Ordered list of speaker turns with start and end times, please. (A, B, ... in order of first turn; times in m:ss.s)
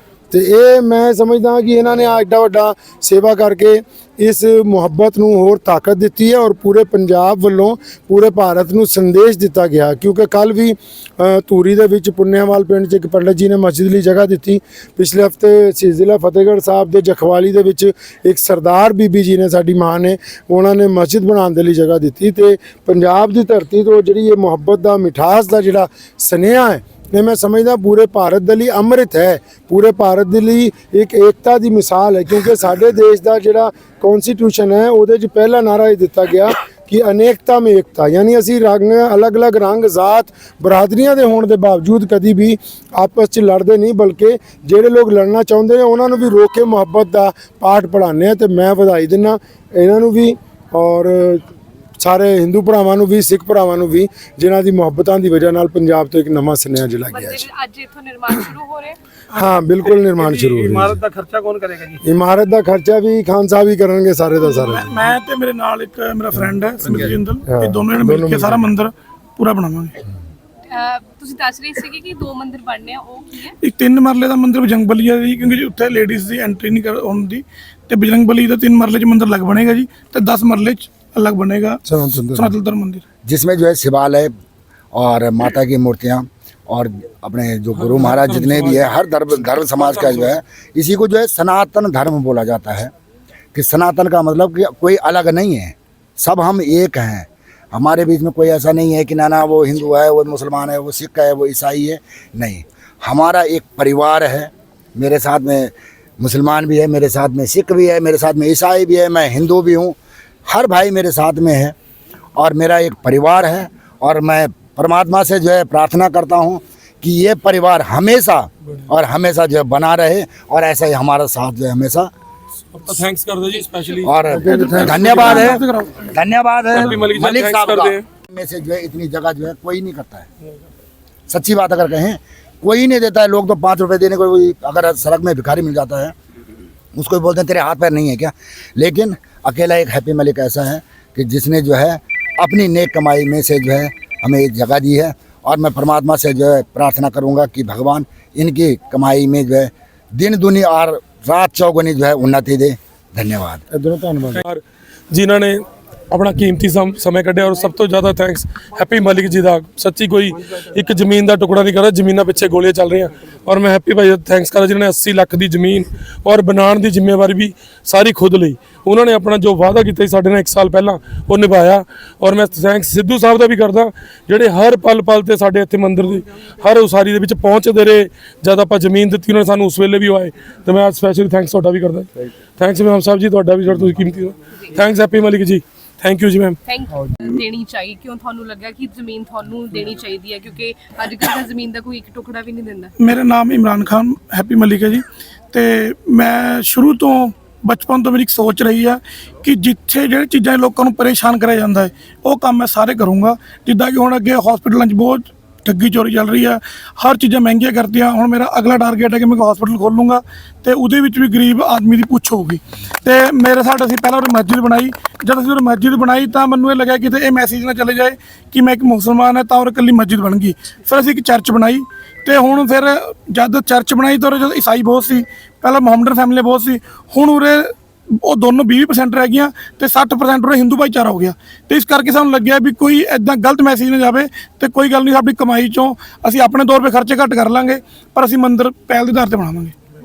0:00.3-0:51.4 A
0:52.0-0:57.4 A
0:57.1-0:59.0 B
0:59.3-1:01.0 A
1:00.5-1:02.0 C
1:02.0-1:05.0 A
1:04.4-1:10.0 C
1:06.8-1:08.7 A
1:10.7-1:13.6 B
1:13.6-1:23.0 C
1:21.9-1:22.5 A
1:23.3-1:24.3 D
1:24.9-1:32.9 D
1:27.8-1:28.9 E
1:29.4-1:30.3 E
1:33.5-1:51.8 D
1:52.4-2:02.1 D
2:02.7-2:04.1 E
2:04.0-2:10.3 D
2:04.3-2:05.6 A
2:04.5-2:06.1 C
2:05.0-2:05.4 E
2:06.7-2:08.0 E
2:11.3-2:16.1 D
2:16.9-2:33.6 D
2:33.7-2:34.4 A
2:34.3-3:06.6 E
3:06.7-3:12.9 B
3:13.0-3:59.7 C